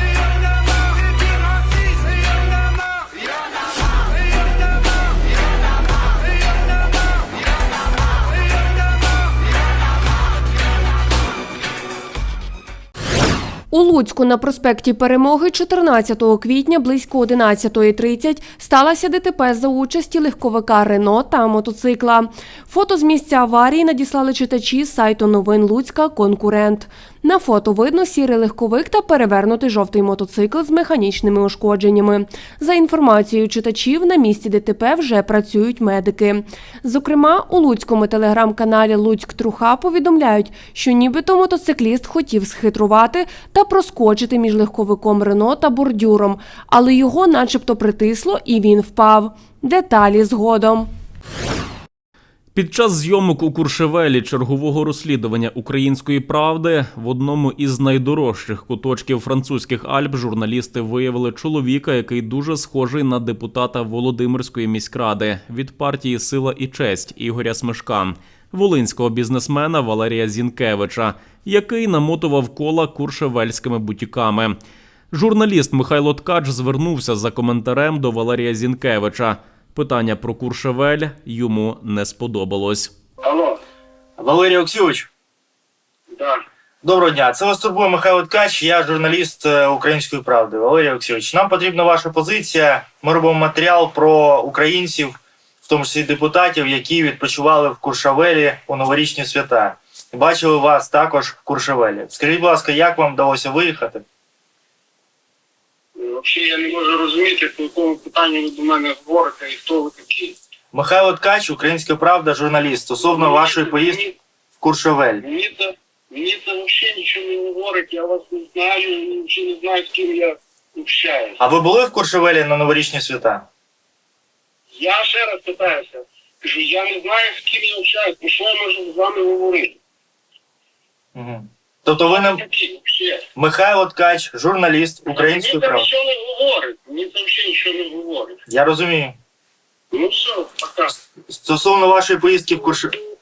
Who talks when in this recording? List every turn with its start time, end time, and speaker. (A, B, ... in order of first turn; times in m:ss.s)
0:13.7-0:50.9 A
0:52.5-1:14.6 B
1:15.1-1:22.9 B
1:23.2-1:23.6 C
1:24.2-1:25.1 D
1:26.1-1:26.4 C
1:26.8-1:44.0 D
1:46.0-1:50.3 C
1:50.7-1:54.1 D
1:53.0-1:54.1 C
1:54.6-1:55.2 D
1:55.2-2:01.4 C
2:01.4-2:03.5 D
2:04.8-2:09.8 C
2:11.2-2:12.4 D
2:12.1-2:13.2 C
2:13.3-2:15.9 D
2:15.1-2:18.4 C
2:18.5-2:19.1 D
2:19.9-2:20.9 C
2:21.3-2:22.9 D